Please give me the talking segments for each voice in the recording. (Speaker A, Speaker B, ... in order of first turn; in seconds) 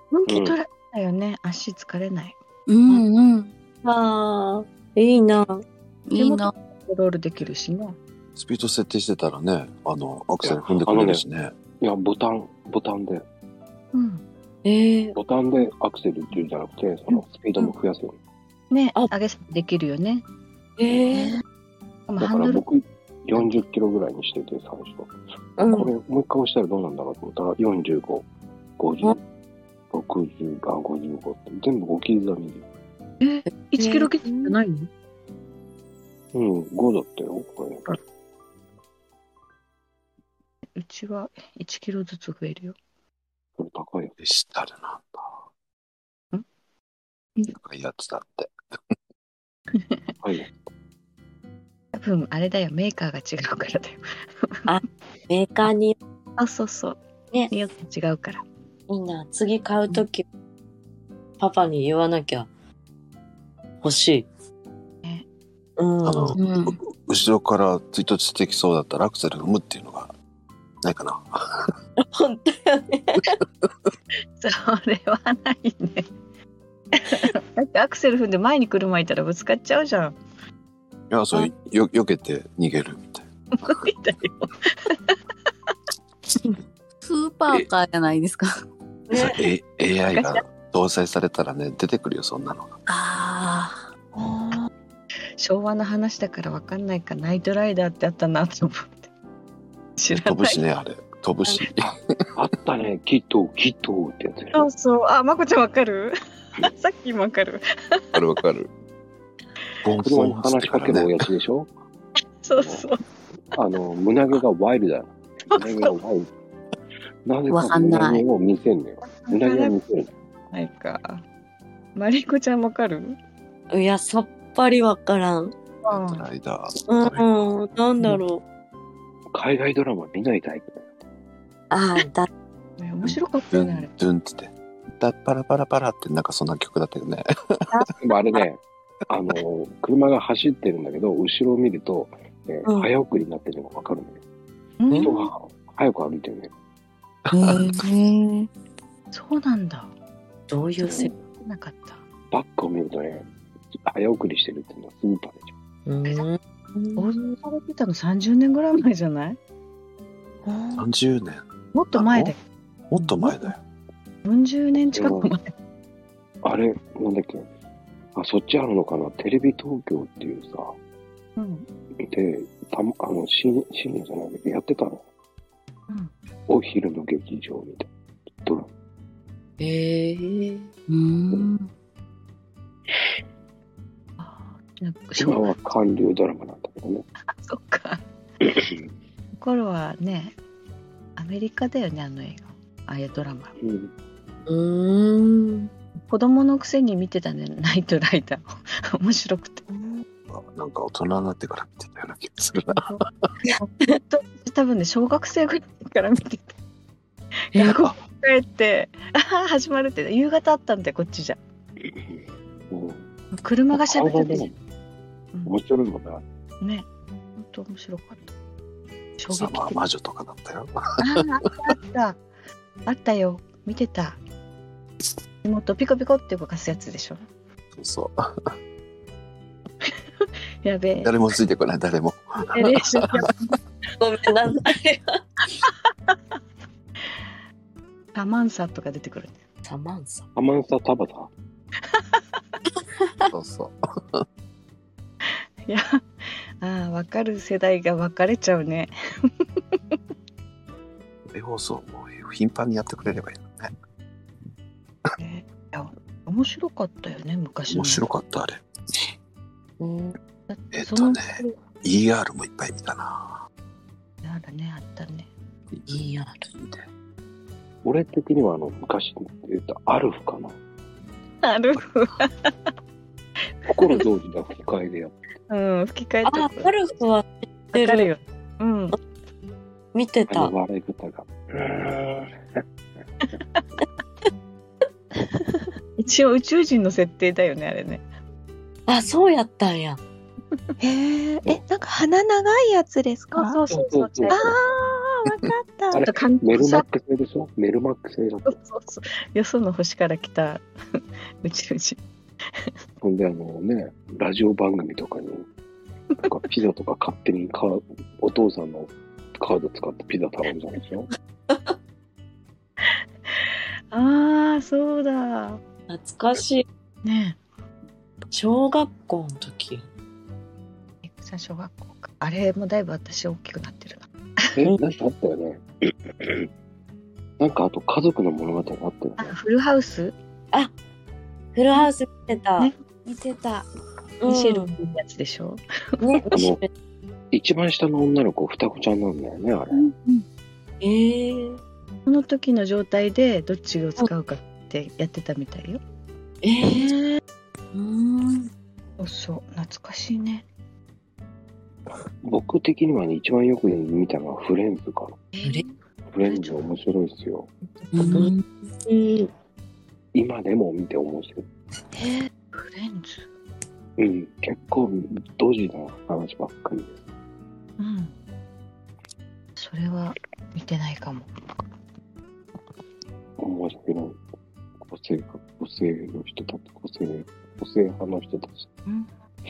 Speaker A: 0.1-2.4, 6.2-8.0, 13.9-14.2, 18.7-20.2, 22.1-22.6, 23.4-23.6, 33.2-34.9, 40.8-42.8, 49.7-50.1, 51.9-54.0, 56.4-57.0, 57.5-58.4, 74.4-76.1, 77.0-80.2, 83.6-85.1, 90.1-90.4, 95.4-99.1, 100.0-100.6, 104.5-108.2, 112.4-113.0, 115.5-115.9, 119.0-119.8, 120.5-121.2, 122.0-123.2, 125.8-126.3, 132.8-133.9, 144.8-145.3, 149.1-149.9, 150.8-152.0, 157.0-159.4, 161.7-162.4, 164.2-165.5, 171.4-171.7, 184.2-185.5, 187.3-188.0, 189.4-190.3, 191.2-193.5, 196.1-199.6, 202.7-203.0, 203.6-206.5, 207.5-211.4, 213.3-214.5, 216.6-216.8, 217.4-218.3, 219.2-219.8, 221.0-222.2, 222.8-224.2, 225.4-227.2, 230.6-231.1, 232.5-233.5, 238.1-239.4, 241.9-242.2, 245.6-246.0, 246.6-249.3, 255.2-258.0, 260.5-261.5, 264.2-265.3, 271.4-272.5, 275.5-276.9, 277.7-279.0, 283.3-283.6, 286.0-288.0, 293.3-294.5, 296.0-296.9, 298.4-300.6, 301.4-302.0, 313.9-315.6, 317.0-317.4, 321.0-324.5, 329.2-330.1, 334.3-335.6, 342.1-345.8, 349.0-350.4, 355.3-355.6, 356.2-356.7, 357.7-358.2, 362.5-363.3, 367.8-368.1, 369.6-371.3, 378.9-379.1
Speaker B: 0.3-0.6, 10.4-11.2, 11.8-13.2, 15.2-18.2, 22.2-25.1, 25.7-28.2, 28.8-29.2, 29.9-32.6, 36.3-37.9, 43.6-44.1, 50.2-50.5, 102.3-104.7, 110.0-111.7, 112.6-112.8, 113.5-116.3, 117.2-120.1, 129.3-130.9, 138.0-144.2, 145.0-146.5, 152.3-153.3, 153.8-155.5, 164.9-165.3, 166.4-167.5, 168.1-170.7, 172.0-175.0, 176.5-177.9, 178.4-178.7, 185.2-187.1, 188.4-188.8, 193.6-193.9, 211.8-213.0, 213.7-214.6, 215.4-216.2, 240.3-241.3, 267.8-270.6, 273.6-275.2, 280.3-282.6, 293.7-294.6, 295.9-298.6, 303.0-305.5, 306.2-311.1, 324.6-326.5, 327.4-329.3, 336.3-336.6, 337.3-339.9, 352.2-355.2, 356.1-357.5, 360.1-361.5, 364.0-367.0, 373.4-374.2, 374.8-378.7
Speaker C: 2.7-3.5, 6.1-6.5, 66.4-66.8, 87.0-88.5, 92.9-93.8, 117.5-118.2, 147.3-148.5, 180.9-181.7, 339.7-340.2, 347.7-348.4, 357.9-358.4
Speaker D: 3.8-5.6, 14.6-15.2, 20.8-21.4, 25.6-25.9, 33.8-34.5, 54.6-55.9, 58.9-60.2, 61.4-62.5, 63.8-64.3, 65.8-66.4, 72.1-73.4, 89.1-89.4, 123.7-125.5, 126.9-128.4, 131.7-132.3, 144.9-145.3, 150.5-151.1, 155.8-157.1, 160.5-160.8, 179.6-180.7, 194.4-195.7, 207.5-207.8, 234.0-235.2, 239.6-240.2, 259.8-260.2, 265.9-266.5, 276.2-278.1, 279.9-280.5, 288.9-290.0, 315.9-316.6, 318.3-319.9, 331.5-332.7, 334.2-334.7, 336.0-336.7, 340.8-341.6, 346.4-346.9, 358.1-359.3
Speaker E: 8.3-11.6, 44.2-45.4, 47.5-48.5, 66.0-70.1, 70.8-71.7, 81.1-83.9, 89.1-92.8, 100.1-102.0, 108.1-108.7, 109.8-111.3, 126.0-127.3, 133.0-137.2, 147.3-147.6, 160.8-162.3, 162.9-163.6, 200.3-203.3, 219.3-221.3, 227.8-228.2, 231.0-233.3, 243.3-244.2, 251.3-253.7, 257.7-258.6, 260.7-263.4, 266.5-266.8
Speaker F: 94.2-94.6, 285.1-285.7, 290.8-296.0, 361.9-362.3